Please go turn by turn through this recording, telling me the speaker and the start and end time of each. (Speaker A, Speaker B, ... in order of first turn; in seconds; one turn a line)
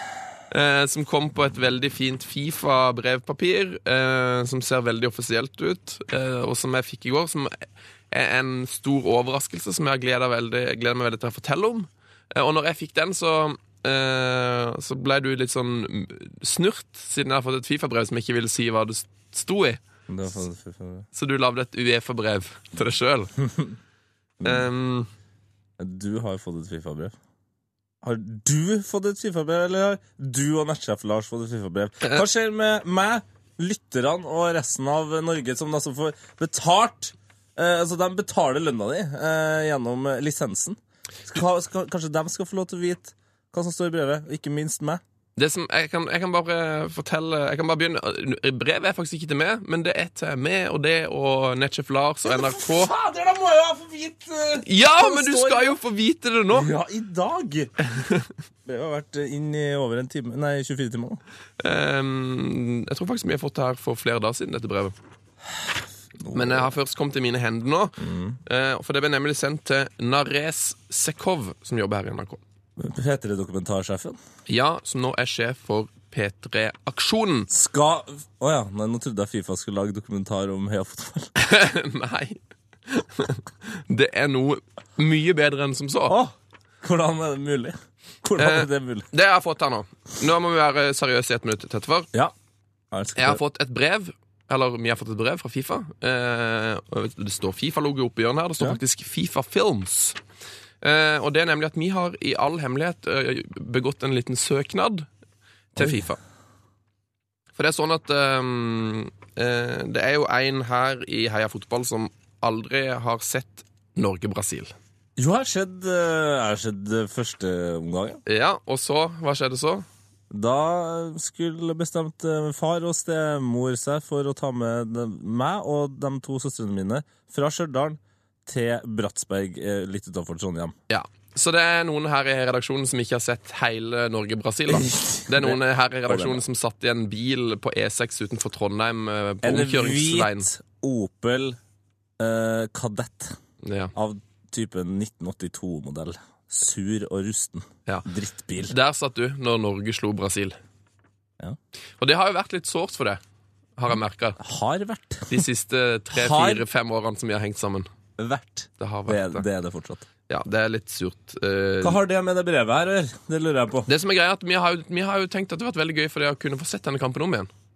Speaker A: 0.5-19.8
Speaker B: 20.1-21.1
Speaker A: 21.1-23.3
Speaker B: 23.4-23.7
Speaker B: 24.4-24.7
Speaker A: 24.4-25.1
Speaker B: 25.8-27.1
Speaker B: 28.0-45.0
Speaker A: 45.4-52.9
Speaker B: 52.2-55.8
Speaker A: 54.6-56.7
Speaker B: 56.5-57.7
Speaker A: 58.0-58.3
Speaker B: 58.6-61.2
Speaker A: 61.6-64.9
Speaker B: 66.2-66.7
Speaker A: 66.3-72.4
Speaker B: 68.0-68.4
Speaker B: 72.8-74.2
Speaker A: 74.5-77.5
Speaker B: 77.5-81.3
Speaker A: 81.4-86.2
Speaker B: 86.1-89.1
Speaker A: 88.4-92.1
Speaker B: 92.9-93.4
Speaker A: 93.2-100.2
Speaker A: 100.8-105.1
Speaker A: 105.7-106.2
Speaker B: 105.8-106.0
Speaker A: 107.5-114.7
Speaker B: 115.2-118.2
Speaker A: 118.2-119.8
Speaker B: 120.3-130.7
Speaker A: 130.9-140.5
Speaker B: 134.7-136.4
Speaker B: 139.4-141.6
Speaker B: 142.2-143.3
Speaker A: 143.6-143.9
Speaker B: 143.9-148.7
Speaker A: 148.6-150.6
Speaker A: 152.0-153.2
Speaker A: 153.8-154.4
Speaker B: 154.4-155.4
Speaker A: 155.3-157.9
Speaker B: 156.1-156.6
Speaker B: 158.2-160.1
Speaker A: 158.8-159.4
Speaker A: 160.3-162.0
Speaker B: 161.8-163.9
Speaker A: 163.9-167.5